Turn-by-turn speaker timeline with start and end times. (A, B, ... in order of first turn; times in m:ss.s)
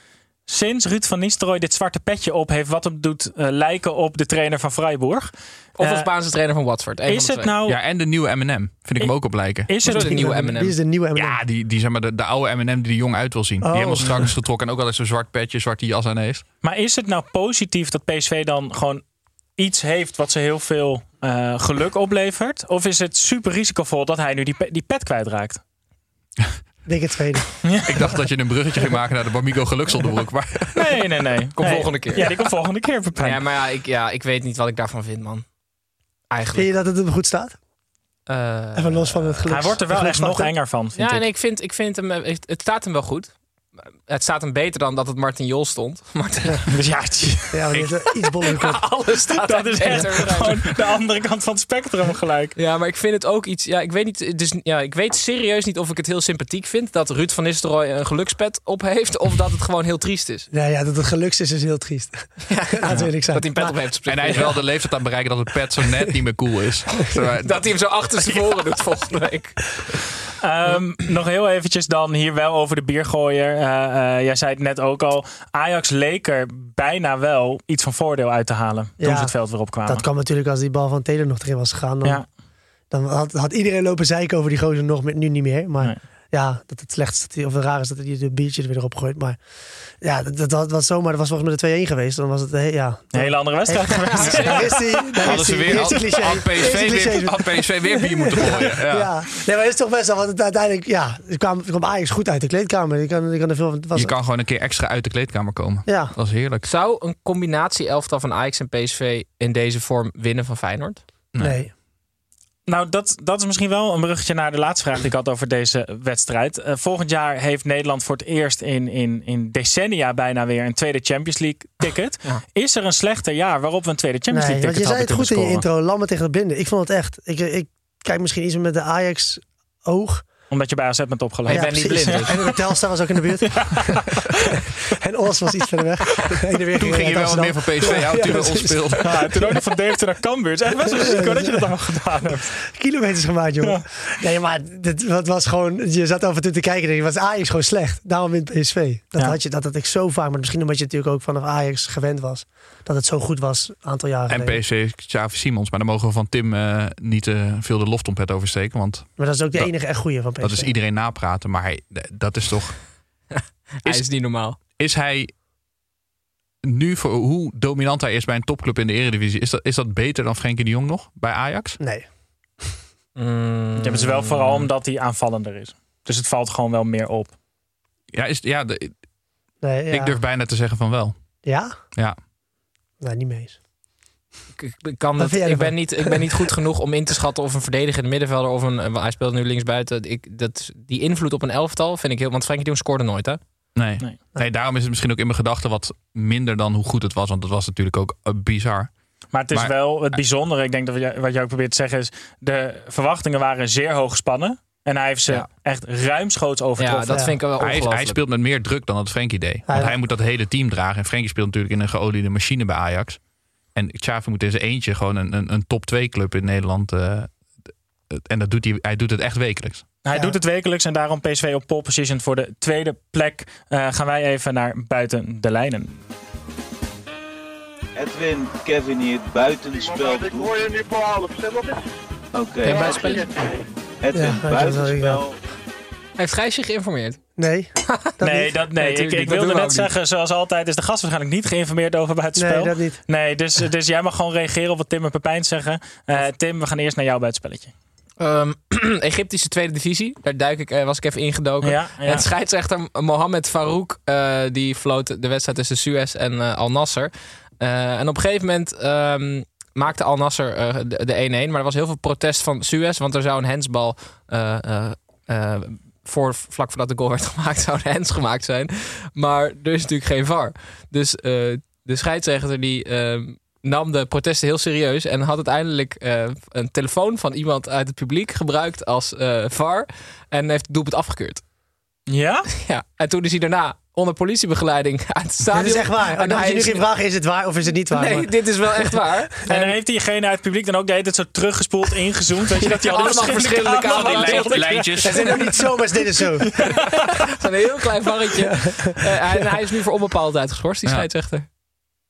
0:00.5-0:06.1 A
0:05.8-0:07.5 B
0:07.1-0:07.8 A
0:07.7-0:09.7 C
0:09.7-0:10.2 A
0:09.8-0:10.8 B
0:09.8-0:11.4 D
0:11.1-0:16.4 C
0:13.6-0:14.3 D
0:16.6-0:19.0 A
0:19.6-0:25.6 A
0:26.8-0:27.5 D
0:27.6-0:28.0 A
0:27.8-0:30.9 C
0:30.7-0:33.4 A
0:31.6-0:32.3 B
0:33.2-0:35.4 B
0:36.3-0:36.7 B
0:36.5-0:37.6 D
0:38.3-0:39.5 B
0:38.8-0:40.5 D
0:39.5-0:41.2 A
0:41.0-0:43.3 B
0:44.1-0:46.6 B
0:46.7-0:47.6 A
0:47.5-0:48.8 D
0:48.4-0:50.7 B
0:49.4-0:52.6 A
0:52.6-1:00.5 B
1:00.5-1:03.8 D
1:02.4-1:04.6 B
1:04.1-1:08.6 C
1:07.4-1:09.6 B
1:10.4-1:20.0 A
1:19.0-1:22.2 D
1:22.9-1:29.4 D
1:30.0-1:44.2 D
1:33.1-1:35.2 A
1:34.0-1:34.6 B
1:35.2-1:39.1 C
1:35.7-1:36.0 A
1:43.9-1:46.7 C
1:45.8-1:46.1 D
1:46.6-1:51.0 B
1:51.3-1:51.6 C
1:51.4-1:51.7 D
1:52.7-2:05.6 A
2:04.3-2:10.2 D
2:10.5-2:12.5 A
2:11.4-2:19.6 D
2:11.5-2:12.4 B
2:13.4-2:14.5 A
2:16.8-2:19.2 C
2:19.0-2:22.6 A
2:20.8-2:21.7 D
2:22.7-2:34.6 D
2:34.3-2:39.7 C
2:39.2-2:40.7 D
2:40.4-2:42.8 C
2:43.4-2:44.6 B
2:44.8-2:45.3 C
2:46.6-2:51.8 C
2:51.8-2:52.0 D
2:53.2-2:54.7 B
2:53.8-2:57.3 A
2:58.1-2:58.9 C
2:59.6-3:00.2 D
2:59.9-3:01.2 C
3:01.4-3:01.7 D
3:03.0-3:03.6 D
3:04.6-3:13.4 B
3:05.2-3:06.4 D
3:13.7-3:18.9 C
3:19.3-3:27.2 A
3:19.5-3:20.2 C
3:26.8-3:28.2 B
3:27.6-3:33.2 C
3:29.7-3:30.0 D
3:33.7-3:37.3 C
3:38.1-3:39.8 C
3:40.0-3:46.0 A
3:40.1-3:40.4 D
3:48.0-3:50.9 E
3:52.3-3:53.2 E
3:52.6-3:53.4 B
3:54.0-3:55.4 E
3:54.1-3:55.2 D
3:56.2-3:57.2 B
3:57.4-3:58.5 D
3:58.2-4:07.7 A
3:58.7-3:59.9 B
4:02.4-4:03.0 D
4:08.2-4:41.4 B
4:11.6-4:12.2 A
4:42.1-4:42.5 A
4:42.6-4:46.8 B
4:45.5-4:48.9 D
4:47.9-4:49.7 B
4:49.5-4:55.2 A
4:52.6-4:54.9 B
4:53.8-4:55.6 C
4:55.0-4:56.5 D
4:56.5-4:57.0 A
4:56.7-5:01.4 B
4:58.4-4:59.5 D